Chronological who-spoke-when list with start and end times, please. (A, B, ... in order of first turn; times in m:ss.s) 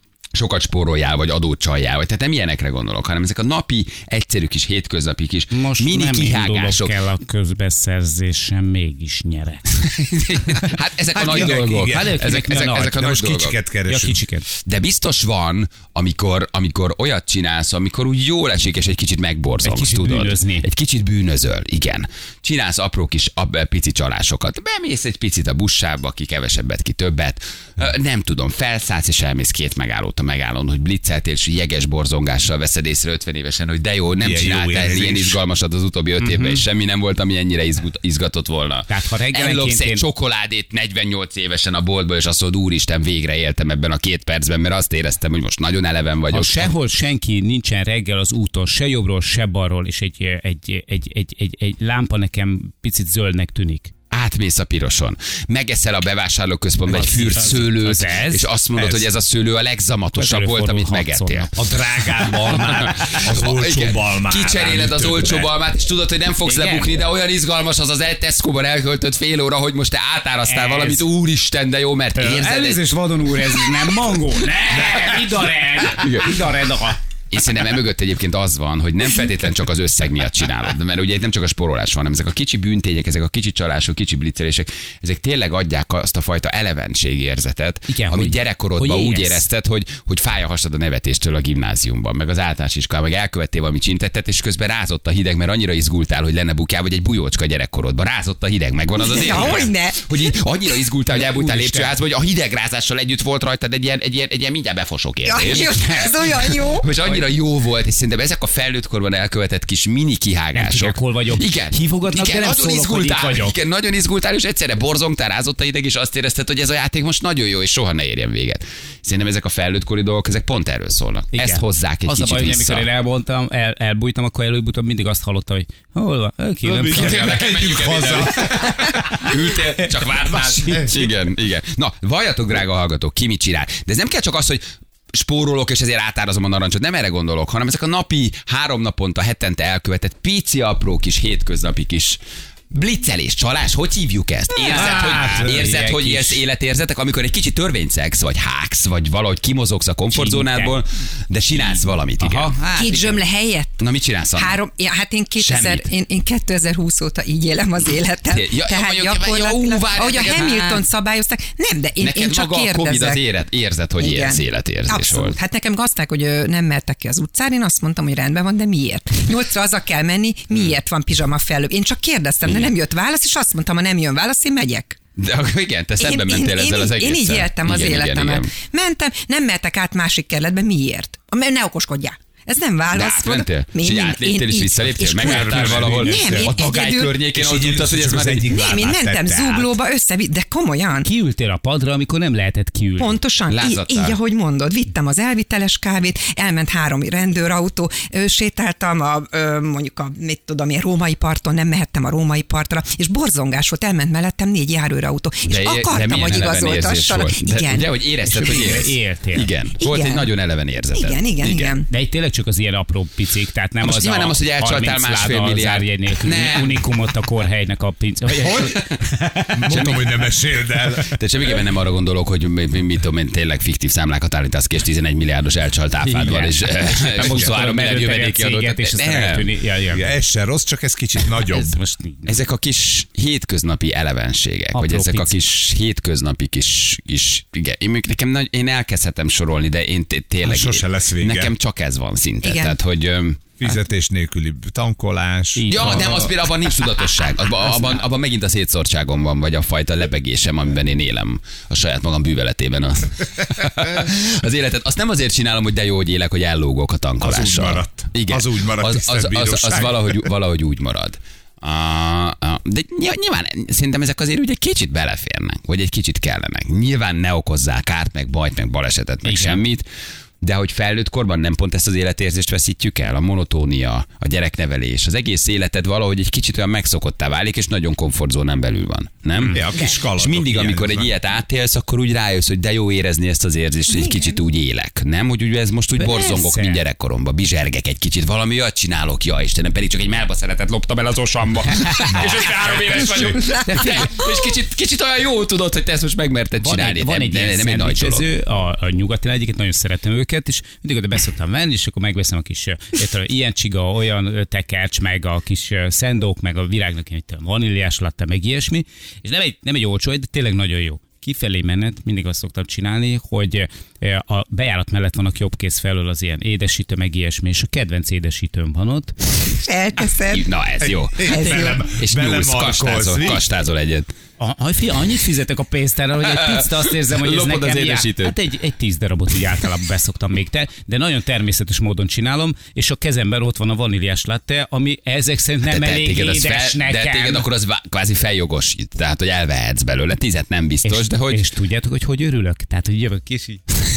0:00.3-0:07.0 A
0:05.5-0:09.7 B
0:09.7-0:13.6 A
0:11.1-0:14.2 C
0:11.8-0:12.9 B
0:13.9-0:14.4 B
0:14.6-0:46.7 A
0:19.6-0:20.6 B
0:34.2-0:35.4 C
0:36.2-0:36.6 B
0:38.9-0:40.0 B
0:46.3-0:53.9 B
0:54.1-1:01.5 A
0:56.9-0:58.5 B
0:58.8-0:59.0 C
1:00.2-1:01.5 B
1:01.6-1:05.5 C
1:02.4-1:12.8 A
1:06.4-1:07.0 B
1:10.5-1:11.0 B
1:12.2-1:17.0 B
1:15.8-1:16.4 A
1:17.3-2:02.9 A
1:27.9-1:29.4 B
1:38.9-1:40.3 D
1:41.1-1:41.9 B
1:45.2-1:46.9 D
1:50.5-1:53.5 B
2:01.3-2:07.3 B
2:06.6-2:09.3 C
2:06.9-2:22.2 A
2:10.3-2:11.0 C
2:22.7-2:32.6 A
2:24.6-2:26.4 B
2:30.1-2:30.8 B
2:32.2-2:33.2 B
2:32.7-2:33.8 D
2:33.8-2:34.6 A
2:34.3-2:43.2 D
2:35.4-2:35.9 A
2:38.3-2:40.8 A
2:42.0-2:45.4 A
2:44.0-2:55.0 D
2:52.4-2:52.7 A
2:55.2-2:58.5 A
2:56.0-3:07.2 D
3:02.9-3:08.5 A
3:05.2-3:06.5 C
3:07.3-3:09.8 C
3:08.5-3:11.1 D
3:11.0-3:13.2 B
3:13.0-3:28.7 D
3:13.5-3:14.2 A
3:25.5-3:31.8 A
3:28.2-3:29.5 B
3:29.8-3:30.3 D
3:30.9-3:31.9 D
3:31.9-3:39.8 B
3:33.8-3:36.8 A
3:38.5-3:38.9 A
3:39.5-3:41.2 C
3:39.7-3:40.2 A
3:41.0-3:49.5 A
3:46.0-3:50.1 B
3:49.9-3:51.8 C
3:51.5-3:52.4 B
3:52.2-4:03.6 A
3:54.7-3:55.3 B
4:00.4-4:01.5 C
4:02.4-4:02.7 D
4:03.6-4:06.2 C
4:05.6-4:06.3 B
4:05.7-4:29.8 A
4:17.2-4:20.2 C
4:29.2-4:29.6 B
4:30.4-4:58.3 A
4:39.4-4:39.7 B
4:39.5-4:41.1 C
4:46.0-4:46.8 B
4:51.8-4:52.3 B
4:53.4-4:54.2 B
4:56.6-5:19.2 B
5:19.5-5:20.5 D
5:20.3-5:24.1 A
5:20.8-5:23.4 C
5:21.2-5:21.8 D
5:24.4-5:37.4 B
5:26.2-5:28.3 A
5:35.6-5:41.4 A
5:40.8-5:43.7 B